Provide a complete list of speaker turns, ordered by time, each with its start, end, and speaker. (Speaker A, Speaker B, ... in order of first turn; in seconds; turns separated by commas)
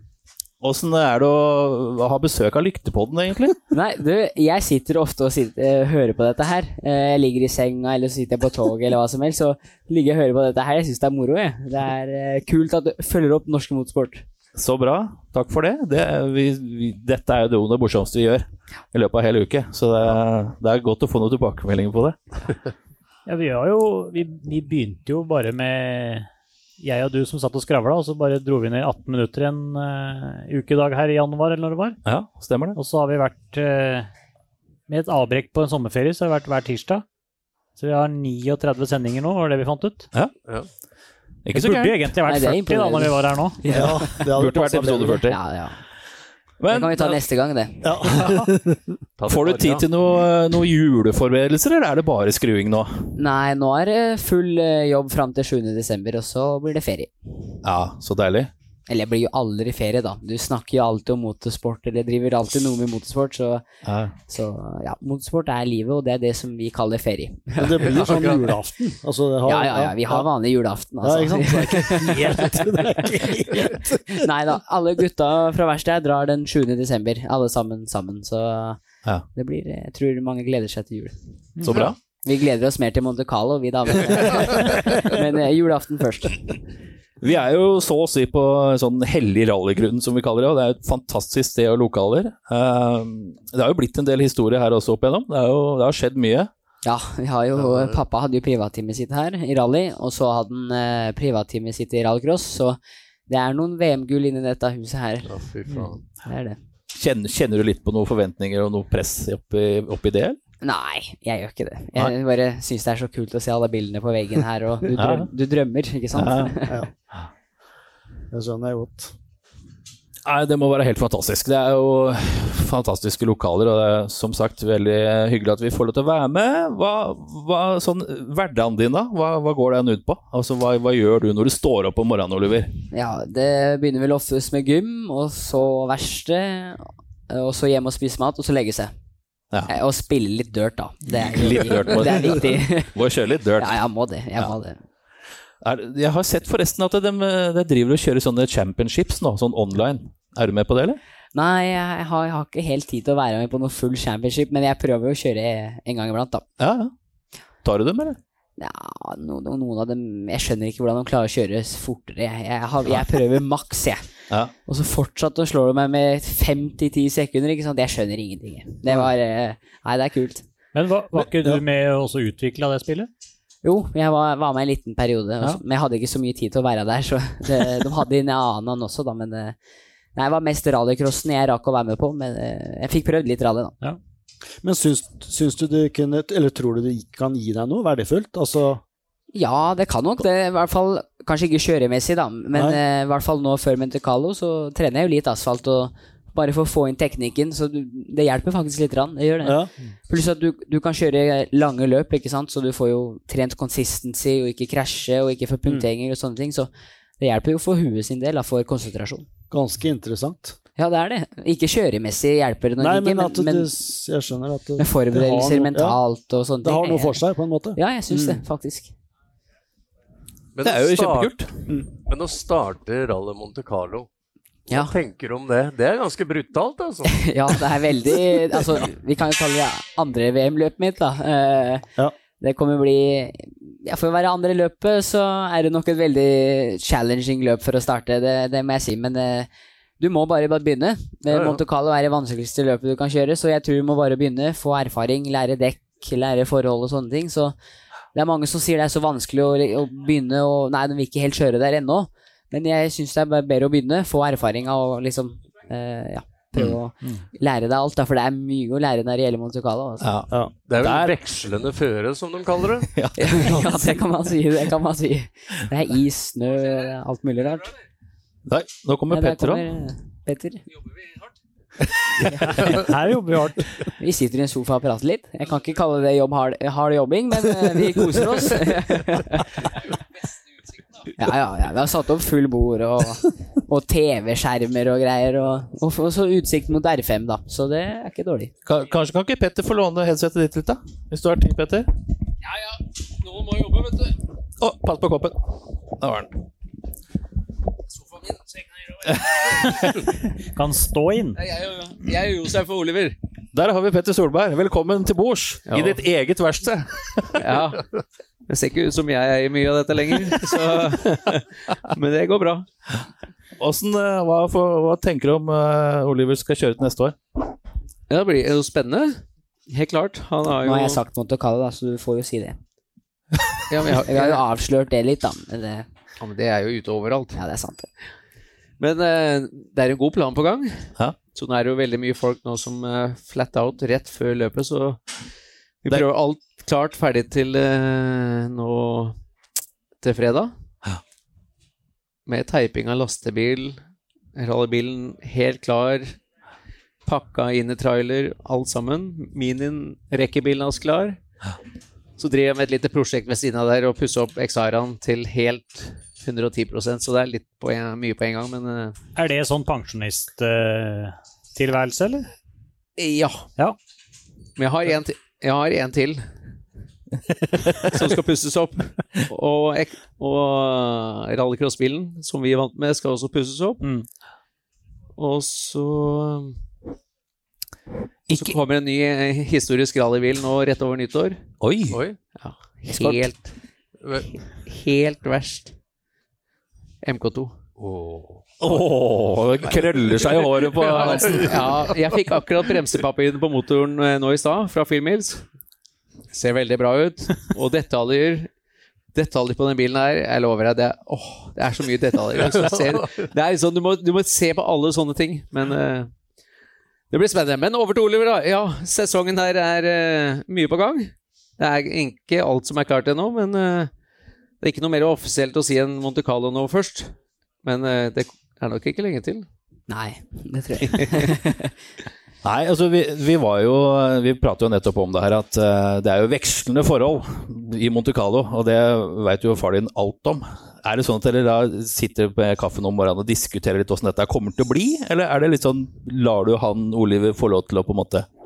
Speaker A: 0.6-3.6, Speaker B: 3.7-14.2, Speaker A: 14.6-22.2, Speaker C: 23.3-26.3, Speaker C: 26.8-32.0, Speaker A: 32.0-32.8, Speaker C: 32.8-34.1, Speaker C: 34.9-37.0, Speaker C: 37.8-40.1, Speaker A: 41.5-42.1, Speaker C: 41.5-43.6, Speaker B: 42.2-44.3, Speaker D: 43.7-45.2, Speaker A: 44.4-45.4, Speaker B: 45.2-45.8, Speaker A: 46.6-47.2, Speaker B: 46.7-48.1, Speaker D: 47.8-48.8, Speaker E: 49.2-49.9, Speaker A: 49.3-52.9, Speaker B: 53.2-57.1, Speaker A: 57.6-58.5, Speaker B: 58.9-63.6, Speaker A: 63.9-64.1, Speaker B: 64.3-68.0, Speaker D: 67.6-70.3, Speaker E: 67.8-68.5, Speaker B: 69.5-78.8, Speaker D: 71.0-74.3, Speaker B: 79.3-81.2, Speaker C: 81.6-81.9, Speaker A: 81.6-82.0, Speaker B: 82.2-86.6, Speaker A: 87.2-96.5, Speaker B: 96.8-105.3, Speaker E: 97.6-98.0, Speaker E: 105.3-106.0, Speaker B: 106.2-106.6, Speaker A: 106.9-110.4, Speaker B: 110.6-116.8, Speaker A: 115.0-115.3, Speaker A: 116.2-116.5, Speaker D: 116.6-116.9, Speaker D: 118.3-119.1, Speaker A: 120.2-132.7, Speaker B: 132.9-138.9, Speaker B: 139.7-143.0, Speaker A: 141.1-143.7, Speaker B: 143.6-144.8, Speaker A: 145.6-151.0, Speaker B: 151.3-156.4, Speaker A: 156.6-156.9, Speaker A: 157.6-158.2, Speaker B: 158.6-164.1, Speaker B: 164.7-170.4, Speaker C: 170.7-173.1, Speaker D: 171.2-171.6, Speaker B: 173.6-179.6, Speaker B: 180.2-183.8, Speaker D: 184.6-188.8, Speaker B: 189.3-209.3, Speaker D: 192.5-192.8, Speaker D: 199.4-199.7, Speaker D: 209.5-210.6, Speaker B: 210.8-213.7, Speaker D: 212.8-216.0, Speaker B: 214.8-217.2, Speaker D: 216.6-218.4, Speaker B: 217.8-218.9, Speaker E: 220.6-221.3, Speaker A: 220.6-221.5, Speaker E: 222.1-224.1, Speaker B: 224.7-225.0, Speaker E: 224.7-227.6, Speaker B: 227.1-231.9, Speaker B: 232.4-247.6, Speaker E: 241.3-241.6, Speaker B: 248.1-260.1, Speaker A: 260.0-261.1, Speaker E: 260.7-262.9, Speaker A: 262.9-263.9, Speaker B: 263.2-267.7, Speaker A: 268.5-269.7, Speaker B: 269.1-270.6, Speaker B: 272.3-272.8, Speaker C: 272.6-273.8, Speaker B: 274.0-279.7, Speaker B: 281.2-288.5, Speaker A: 288.6-291.9, Speaker F: 292.5-294.1, Speaker A: 294.6-295.4, Speaker A: 296.0-296.3, Speaker C: 299.5-301.4, Speaker F: 301.4-303.2, Speaker A: 303.5-307.6, Speaker F: 305.7-306.0, Speaker F: 307.4-307.9, Speaker F: 308.5-312.7, Speaker A: 313.6-317.2, Speaker F: 318.1-321.0, Speaker B: 320.6-322.6, Speaker F: 323.7-324.4, Speaker B: 324.0-325.9, Speaker F: 326.2-327.4, Speaker B: 327.4-327.9, Speaker F: 328.8-335.0, Speaker F: 335.8-339.2, Speaker F: 340.0-340.5, Speaker F: 342.3-343.8, Speaker F: 344.4-346.2, Speaker F: 347.1-351.2, Speaker F: 352.2-359.0, Speaker C: 359.2-362.3, Speaker F: 363.0-363.5, Speaker F: 364.6-366.2, Speaker F: 367.7-373.8, Speaker C: 373.8-374.1, Speaker F: 375.2-376.6, Speaker A: 378.3-378.6, Speaker F: 378.3-381.4, Speaker A: 381.6-382.0, Speaker E: 381.9-382.2, Speaker F: 382.4-383.5, Speaker E: 384.0-384.3, Speaker F: 384.6-385.7, Speaker F: 387.0-387.6, Speaker E: 387.8-388.5, Speaker A: 388.6-391.5, Speaker E: 390.8-391.6, Speaker F: 391.2-395.4, Speaker F: 396.3-398.5, Speaker F: 399.1-406.1, Speaker E: 402.6-403.1, Speaker F: 407.1-413.9, Speaker F: 414.6-417.1, Speaker F: 417.6-419.5, Speaker B: 419.9-421.7, Speaker F: 420.9-421.3, Speaker A: 422.4-438.3